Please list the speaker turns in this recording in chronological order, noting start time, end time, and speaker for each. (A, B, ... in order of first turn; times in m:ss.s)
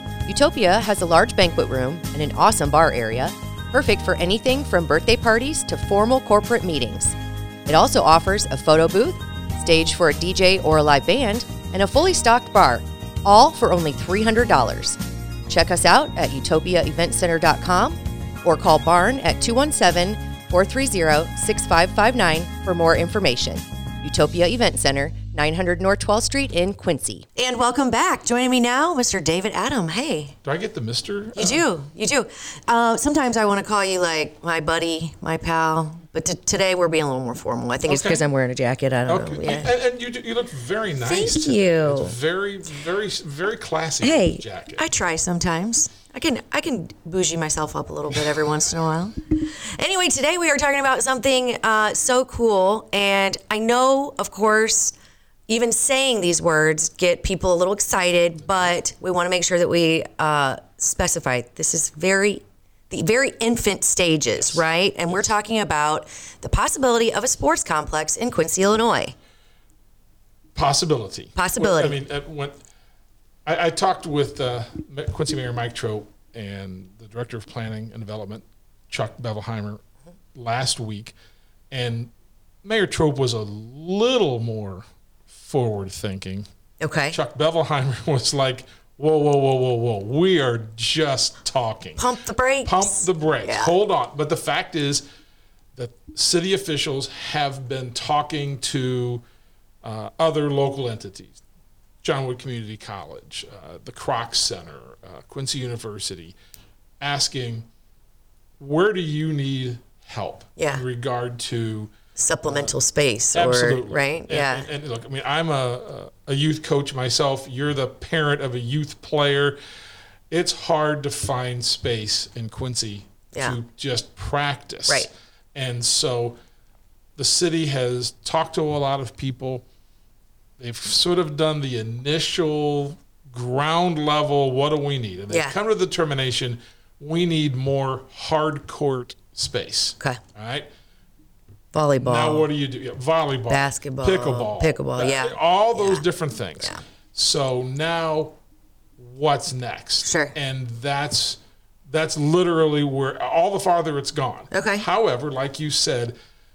0:00.3-0:30.4 A
0:30.4-0:31.6 B
0:31.4-0:39.7 A
0:37.9-0:38.2 B
0:39.1-0:44.8 B
0:41.0-0:42.1 A
0:44.0-0:55.0 A
0:55.5-1:09.2 A
1:04.4-1:05.2 B
1:10.6-1:12.6 B
1:11.4-1:12.0 A
1:13.5-1:19.8 B
1:20.4-1:21.1 B
1:21.7-1:22.1 B
1:22.6-1:26.5 B
1:26.8-1:27.2 A
1:27.1-1:32.0 B
1:32.0-1:33.7 A
1:32.6-1:35.0 B
1:35.8-1:39.2 B
1:39.8-1:41.4 B
1:42.0-1:46.4 B
1:47.0-1:47.7 B
1:48.6-1:51.9 B
1:50.6-1:50.8 A
1:52.2-1:54.7 A
1:52.5-1:52.7 B
1:53.3-1:59.6 B
2:00.3-2:06.4 B
2:07.2-2:09.6 B
2:10.6-2:20.7 B
2:15.3-2:15.6 A
2:21.7-2:22.5 A
2:22.0-2:28.4 B
2:23.5-2:26.0 A
2:29.0-2:36.2 B
2:30.0-2:30.4 A
2:34.5-2:34.9 A